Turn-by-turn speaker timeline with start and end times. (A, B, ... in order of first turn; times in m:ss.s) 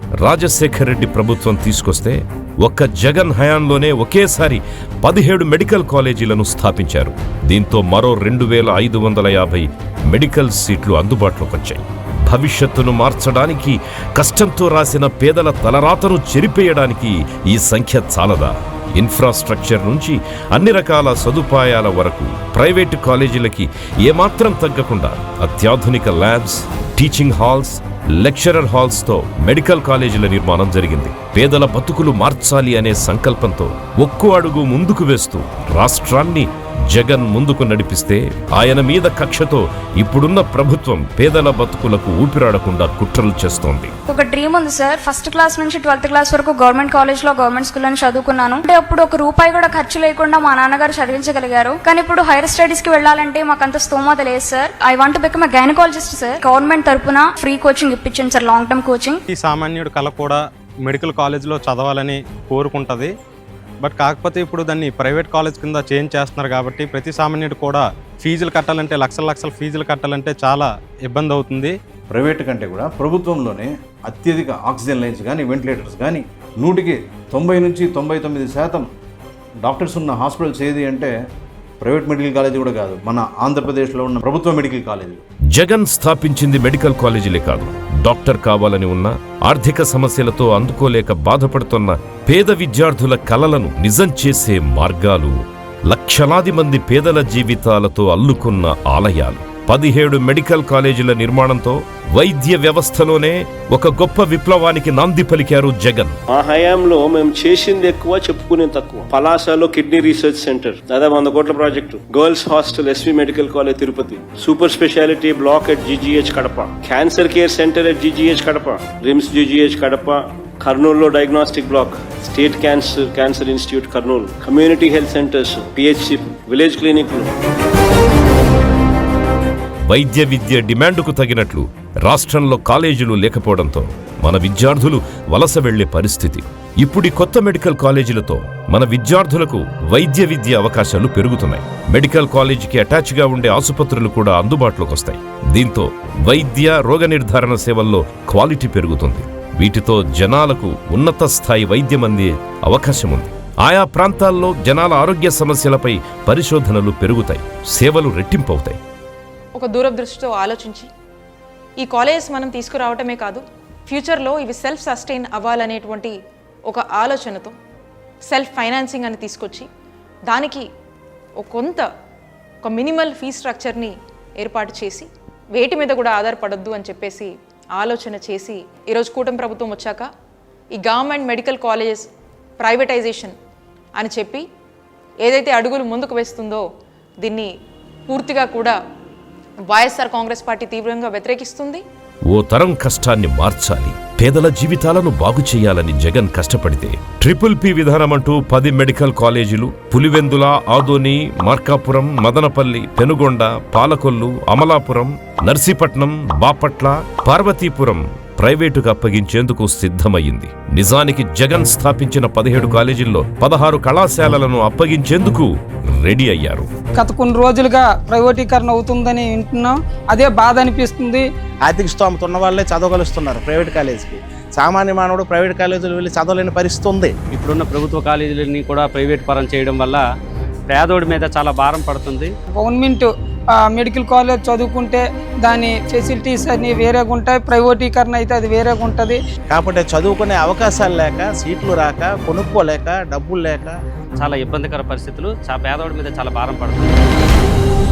0:00.2-0:43.9 A
0:44.1-0:59.2 B
0:59.3-1:03.1 C
1:03.8-1:11.7 C
1:12.1-1:18.9 D
1:19.6-1:21.1 D
1:21.8-1:25.2 D
1:25.5-1:35.3 A
1:35.9-1:46.2 A
1:46.3-2:07.3 E
2:09.9-2:38.8 A
2:39.6-2:40.9 F
2:41.8-2:46.2 F
2:46.7-2:47.5 F
2:48.3-2:49.7 F
2:50.3-2:50.7 F
2:51.4-2:51.9 F
2:52.6-3:00.1 F
3:00.7-3:02.1 F
3:02.6-3:03.4 F
3:04.0-3:04.4 F
3:05.2-3:06.6 F
3:07.2-3:07.5 F
3:08.1-3:08.8 F
3:09.7-3:11.8 F
3:12.3-3:36.7 A
3:37.0-3:41.2 G
3:41.6-3:47.2 H
3:47.3-3:50.0 I
3:50.7-3:52.3 I
3:52.6-3:59.2 G
3:59.5-4:03.8 H
4:04.2-4:07.1 I